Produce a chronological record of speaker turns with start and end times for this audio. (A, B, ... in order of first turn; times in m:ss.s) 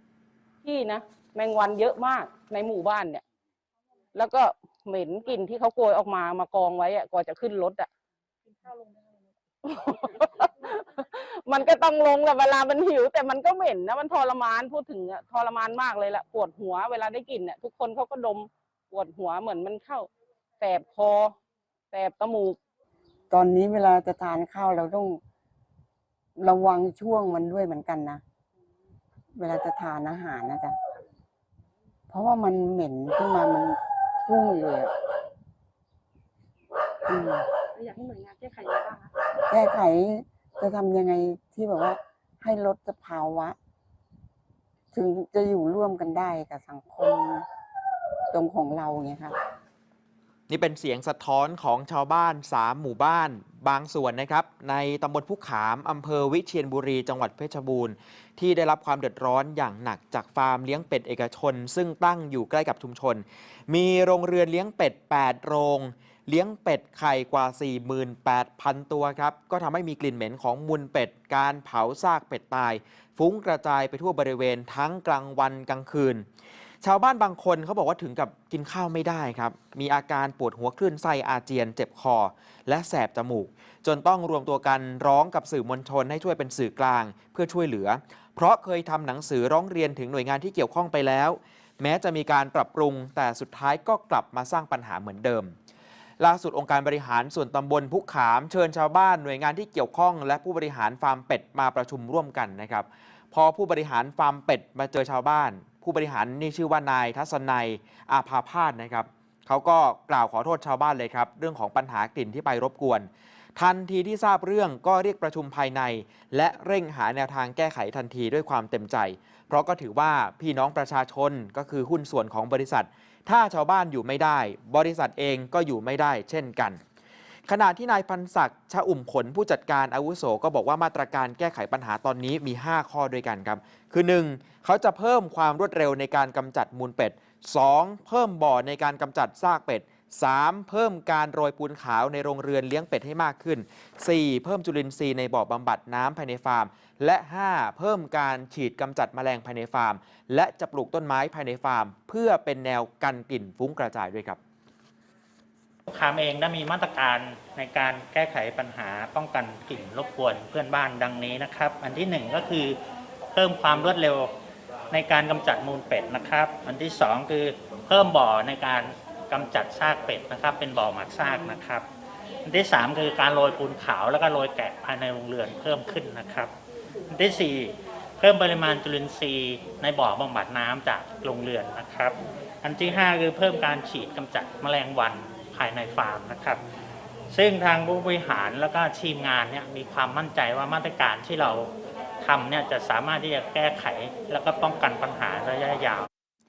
0:00.6-0:03.2 A
0:04.1-0:07.9 A
0:08.5-0:09.2 B
0:09.6-0:20.1 A
0:20.6-0:21.4 A
0:21.9-0:22.6 A
0:23.3-0:25.2 C
0:26.4-0:28.2 C
0:29.3-0:30.8 C
0:32.1-0:34.9 C
0:37.0-0:37.5 C
0:37.7-0:39.1 B
0:39.4-0:43.6 C
0:44.9-0:47.4 C
0:48.3-0:49.3 C
0:50.5-1:16.2 D
1:16.8-1:35.5 D
1:36.2-2:06.8 D
2:07.5-2:34.4 D
2:35.9-2:42.8 E
2:43.3-2:44.3 E
2:44.9-2:51.8 E
2:52.4-2:56.5 E
2:57.1-3:06.6 E
3:07.3-3:11.7 E
3:12.2-3:16.1 E